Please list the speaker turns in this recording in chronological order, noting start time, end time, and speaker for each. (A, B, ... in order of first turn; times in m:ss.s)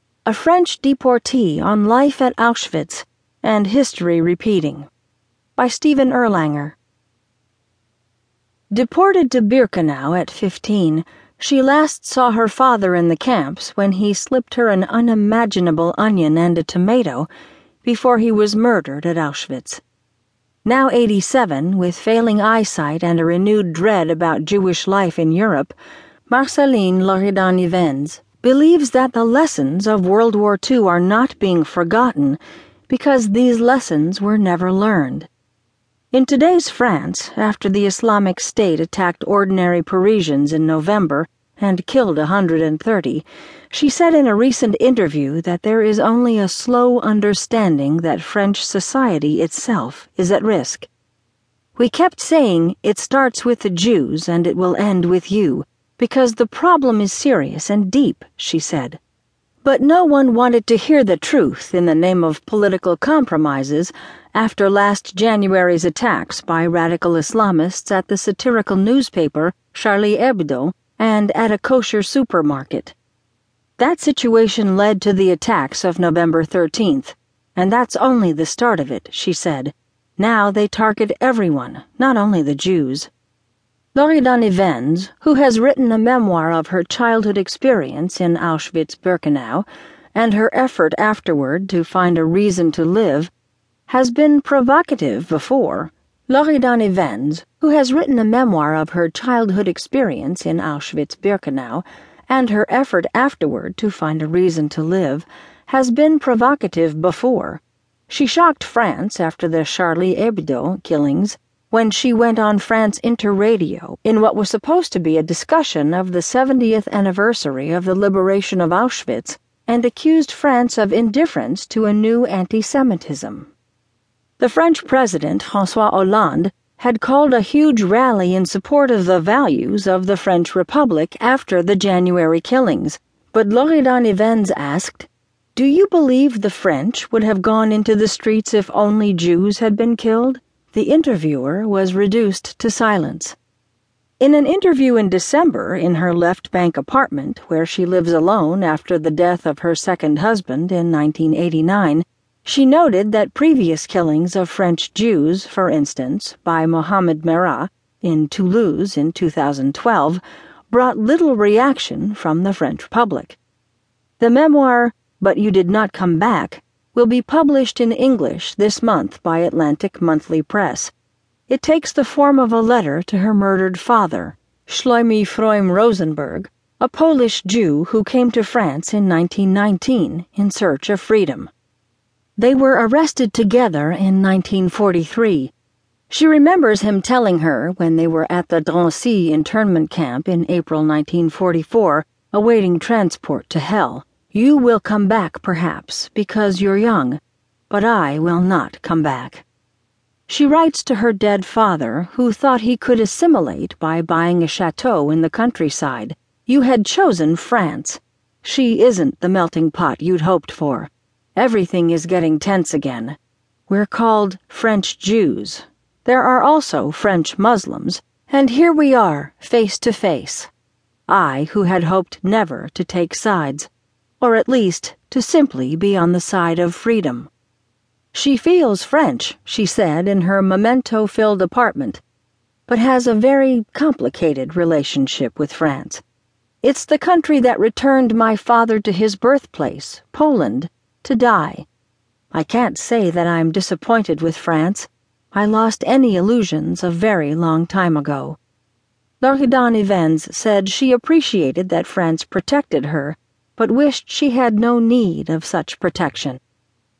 0:00.2-0:04.9 A
0:05.6-0:06.8 A
0:08.7-0:17.3 A
0:17.8-0:19.8 A
0:20.6-0:25.7 A
0:26.3-0:35.3 A
0:36.1-0:50.9 A
0:51.8-0:59.0 A
0:59.6-1:12.9 A
1:13.8-1:23.1 A
1:23.9-1:33.3 A
1:33.9-2:03.5 A
2:04.4-2:23.4 A
2:24.2-2:43.4 A
2:44.2-2:50.9 A
2:51.5-3:01.5 A
3:02.4-3:05.5 A
3:06.1-3:19.4 A
3:20.3-3:40.5 A
3:41.1-3:43.7 A
3:44.2-3:47.3 A
3:48.1-3:52.0 A
3:52.7-3:56.0 A
3:56.6-4:01.6 A
4:02.3-4:08.4 A
4:09.2-4:16.4 A